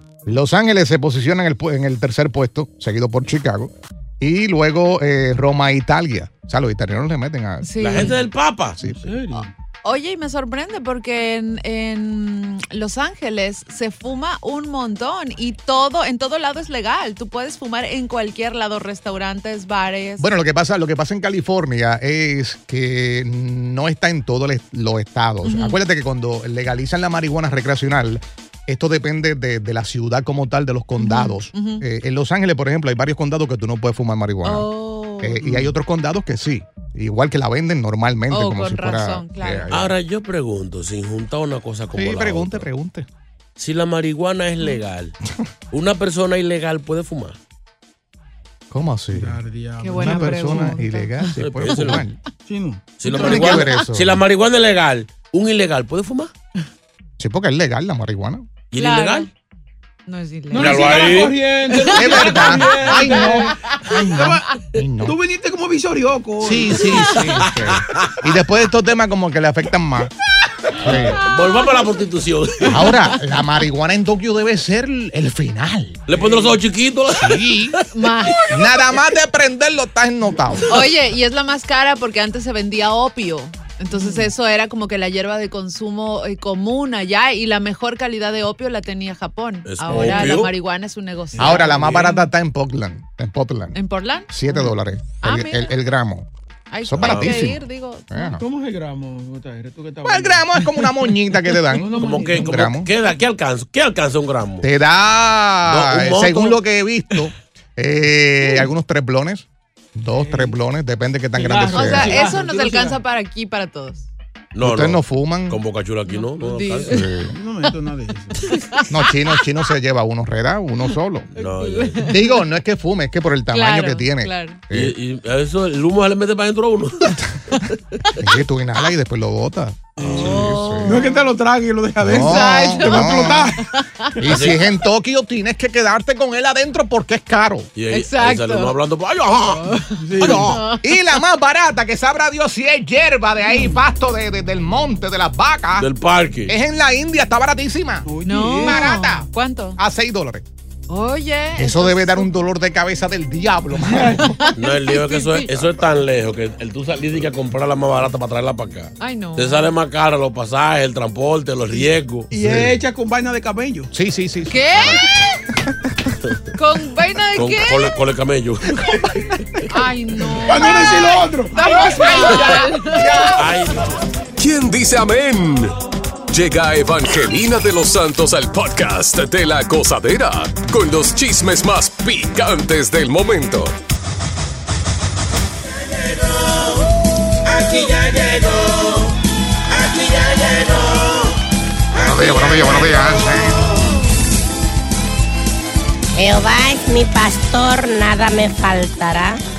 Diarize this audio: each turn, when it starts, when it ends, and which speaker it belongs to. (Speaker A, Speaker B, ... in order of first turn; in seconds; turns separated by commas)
Speaker A: 0.3-7.7, Speaker B: 7.6-8.2, Speaker C: 7.8-8.8, Speaker A: 8.8-9.1, Speaker D: 8.8-9.5, Speaker B: 9.8-20.3, Speaker A: 20.2-39.9, Speaker B: 25.4-25.8, Speaker B: 31.0-31.8, Speaker B: 34.4-35.6, Speaker B: 38.3-39.7, Speaker C: 39.7-42.7, Speaker A: 41.9-43.1, Speaker C: 43.6-45.2, Speaker C: 45.7-47.4, Speaker A: 48.7-49.4, Speaker D: 49.1-50.8, Speaker B: 49.8-51.9, Speaker A: 50.0-52.2, Speaker C: 51.4-52.1, Speaker D: 52.5-53.7, Speaker C: 53.0-56.3, Speaker A: 53.1-54.2, Speaker A: 57.2-58.5, Speaker C: 58.7-59.3, Speaker B: 58.8-59.3, Speaker B: 60.1-61.2, Speaker D: 60.5-64.5, Speaker C: 60.5-61.4, Speaker B: 61.8-63.8, Speaker A: 61.9-65.2, Speaker D: 65.0-67.2, Speaker A: 66.4-70.1, Speaker C: 67.4-68.1, Speaker A: 70.8-71.2, Speaker C: 70.8-73.0, Speaker A: 72.7-76.0, Speaker C: 76.1-77.8, Speaker D: 76.1-76.5, Speaker A: 77.1-77.8, Speaker B: 77.9-78.5, Speaker A: 78.5-80.8, Speaker B: 80.7-91.7, Speaker D: 83.9-84.3, Speaker C: 89.7-90.5, Speaker D: 89.9-90.2, Speaker D: 91.3-92.2, Speaker A: 91.4-93.8, Speaker B: 93.7-94.3, Speaker A: 94.3-96.3, Speaker B: 95.2-95.7, Speaker B: 96.7-98.4, Speaker A: 96.8-97.6, Speaker C: 97.0-97.5, Speaker A: 98.1-98.4, Speaker D: 98.4-102.6, Speaker A: 100.0-102.9, Speaker C: 101.9-104.7, Speaker A: 104.6-112.2, Speaker C: 105.7-106.6, Speaker D: 110.1-110.5, Speaker D: 111.3-113.0, Speaker B: 111.7-114.1, Speaker C: 114.5-117.0, Speaker A: 114.6-115.6, Speaker B: 116.1-117.1, Speaker A: 116.9-117.4, Speaker D: 117.3-118.4, Speaker B: 118.4-119.5, Speaker A: 118.9-121.3, Speaker C: 121.3-122.1, Speaker B: 121.4-122.3, Speaker A: 122.0-124.9, Speaker B: 123.5-124.6, Speaker C: 124.7-127.1, Speaker A: 128.2-131.1, Speaker D: 130.0-133.6, Speaker B: 130.2-131.3, Speaker A: 132.0-133.6, Speaker B: 132.2-134.1, Speaker A: 134.2-137.7, Speaker C: 134.3-134.6, Speaker C: 137.8-139.8, Speaker B: 137.9-138.8, Speaker B: 139.3-141.2, Speaker D: 140.0-140.6, Speaker A: 140.2-145.9, Speaker C: 145.8-146.5, Speaker A: 146.5-148.1, Speaker D: 148.1-148.9, Speaker B: 148.2-149.8, Speaker A: 148.6-150.4, Speaker B: 150.9-152.3, Speaker A: 151.6-154.4, Speaker D: 153.8-154.3, Speaker B: 154.3-155.6, Speaker C: 154.6-162.3, Speaker B: 159.0-159.7, Speaker D: 162.3-163.9, Speaker A: 162.3-162.7, Speaker A: 163.9-165.0, Speaker B: 164.5-165.2, Speaker B: 166.6-167.9, Speaker C: 167.3-169.4, Speaker B: 169.7-173.4, Speaker D: 170.4-173.3, Speaker C: 173.3-173.9, Speaker E: 174.4-175.7, Speaker E: 176.3-183.8, Speaker C: 187.5-189.1, Speaker C: 189.7-191.3, Speaker A: 192.0-193.7, Speaker C: 192.1-192.9, Speaker F: 196.1-199.4